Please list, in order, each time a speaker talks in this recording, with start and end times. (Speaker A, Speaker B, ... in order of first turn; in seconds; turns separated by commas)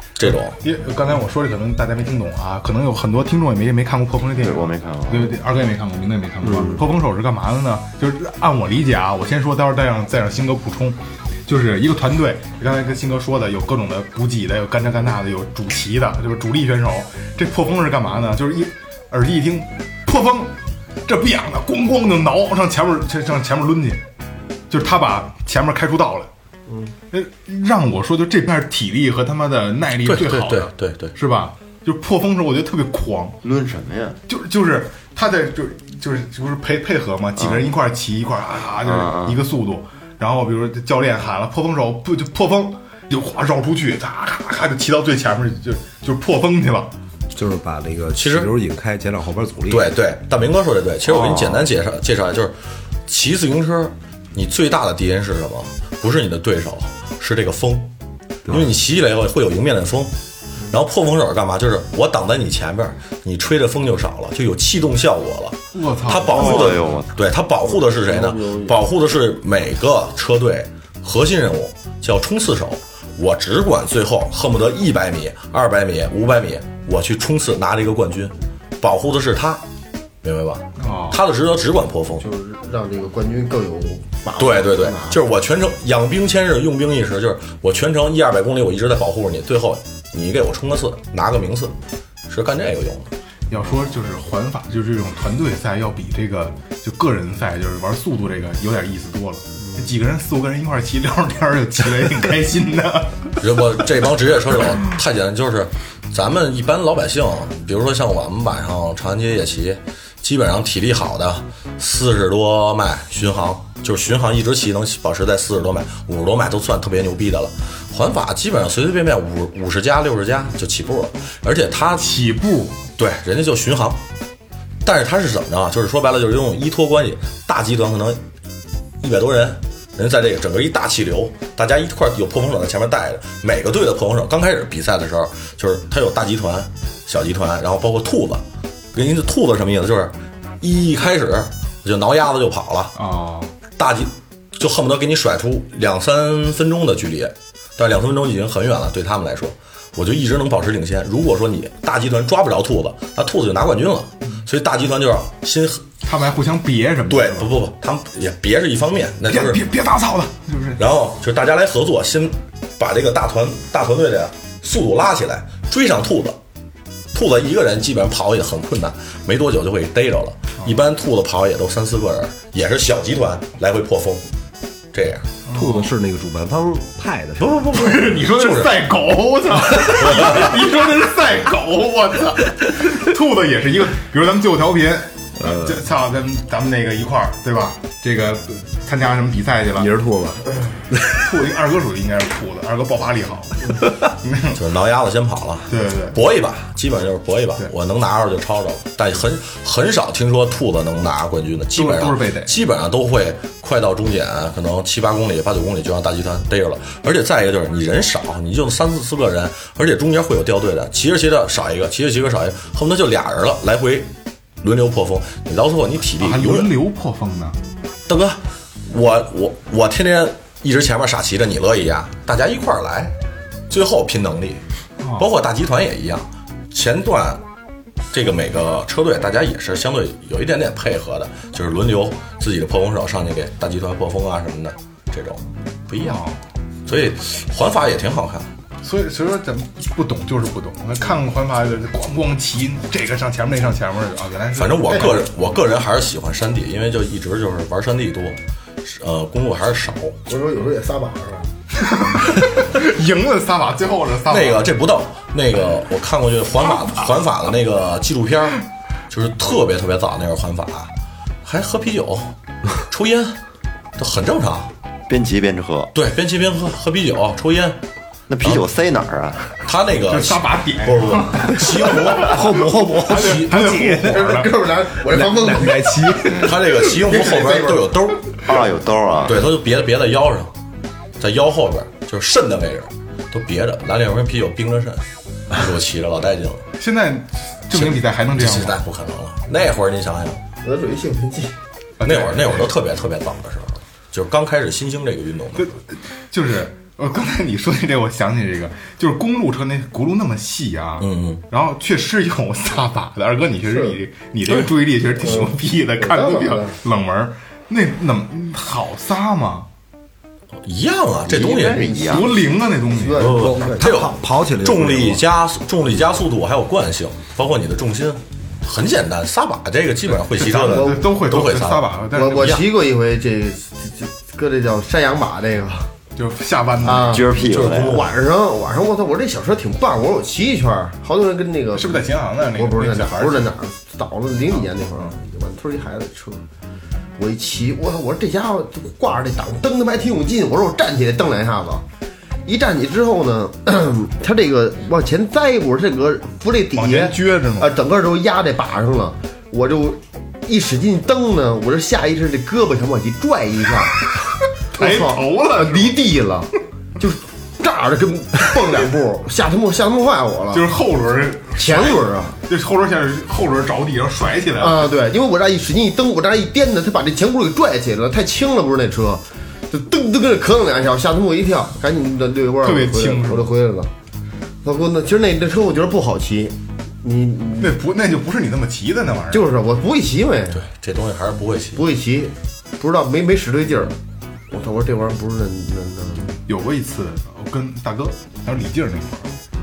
Speaker A: 0.2-0.6, Speaker B: 0.5-20.5, Speaker C: 4.3-5.4, Speaker B: 21.1-24.0, Speaker B: 24.7-26.3, Speaker D: 26.7-26.9, Speaker B: 27.1-33.4, Speaker A: 30.0-31.1, Speaker C: 33.4-34.2, Speaker B: 34.3-46.9, Speaker C: 37.4-37.7, Speaker C: 38.8-39.4, Speaker E: 47.3-49.9, Speaker A: 48.1-48.5, Speaker A: 49.7-52.5, Speaker A: 53.1-57.9, Speaker A: 58.5-60.1, Speaker A: 60.7-79.6, Speaker B: 65.7-66.8, Speaker C: 66.3-67.1, Speaker D: 67.8-68.7, Speaker A: 80.2-82.2, Speaker B: 80.8-81.2, Speaker D: 82.2-85.2, Speaker A: 84.4-91.8, Speaker A: 92.3-93.1, Speaker B: 93.5-103.5, Speaker A: 103.4-122.1, Speaker B: 121.9-122.8, Speaker A: 123.0-124.0, Speaker A: 124.8-128.2, Speaker A: 129.0-143.0, Speaker B: 142.9-143.5, Speaker A: 143.8-155.9, Speaker B: 156.0-157.5, Speaker A: 157.1-159.7, Speaker B: 159.3-160.8, Speaker A: 160.8-166.4, Speaker A: 167.1-174.2, Speaker A: 174.9-175.3, Speaker B: 175.4-175.9, Speaker E: 175.5-178.1, Speaker B: 177.6-189.9, Speaker A: 178.2-178.8, Speaker A: 179.9-180.6, Speaker E: 185.4-185.7, Speaker E: 189.8-191.2, Speaker B: 191.2-194.6, Speaker A: 194.5-216.7, Speaker B: 195.7-196.2, Speaker B: 201.8-202.6, Speaker B: 216.2-217.6, Speaker A: 218.1-223.2, Speaker A: 223.7-224.6, Speaker B: 225.0-225.3, Speaker A: 225.1-227.4, Speaker A: 228.1-236.2, Speaker B: 236.0-236.4, Speaker A: 236.9-238.5, Speaker B: 238.8-245.3, Speaker A: 244.5-250.2, Speaker D: 250.3-251.5, Speaker B: 251.8-254.7, Speaker A: 254.3-260.9, Speaker A: 261.4-262.4, Speaker A: 262.9-263.4, Speaker A: 264.0-264.7, Speaker C: 265.1-265.9, Speaker A: 265.9-267.8, Speaker C: 268.3-269.6, Speaker A: 269.6-273.6, Speaker B: 270.1-274.6, Speaker E: 272.2-274.1, Speaker D: 273.9-277.9, Speaker E: 275.1-276.7, Speaker A: 276.3-278.4, Speaker C: 278.4-279.4, Speaker A: 279.2-280.5, Speaker A: 281.2-286.7, Speaker B: 286.8-288.8, Speaker A: 287.7-290.4, Speaker D: 290.6-291.6, Speaker B: 292.0-292.7, Speaker A: 292.0-295.7, Speaker B: 295.6-309.7, Speaker A: 301.0-301.4, Speaker D: 303.7-303.9, Speaker D: 305.2-306.8, Speaker A: 310.6-311.9, Speaker C: 311.3-312.3, Speaker D: 311.6-313.9, Speaker B: 312.0-313.3, Speaker A: 313.1-322.6, Speaker E: 313.3-315.2, Speaker B: 320.3-322.6, Speaker D: 320.6-321.1, Speaker D: 322.1-325.9, Speaker B: 326.1-327.4, Speaker D: 326.8-327.3, Speaker C: 327.0-328.0, Speaker A: 327.4-328.1, Speaker D: 327.8-332.0, Speaker B: 331.7-333.5, Speaker D: 332.6-336.4, Speaker B: 334.5-335.1, Speaker D: 337.2-341.9, Speaker D: 342.4-354.1, Speaker B: 346.8-347.8, Speaker B: 354.7-356.1, Speaker D: 354.8-360.6, Speaker B: 360.5-364.9, Speaker D: 361.6-362.4, Speaker D: 364.6-373.9, Speaker B: 372.6-373.6, Speaker D: 374.6-377.8, Speaker B: 377.6-379.5, Speaker D: 379.3-380.6, Speaker A: 380.5-381.8, Speaker D: 381.8-383.9, Speaker D: 384.5-386.4, Speaker B: 386.5-389.3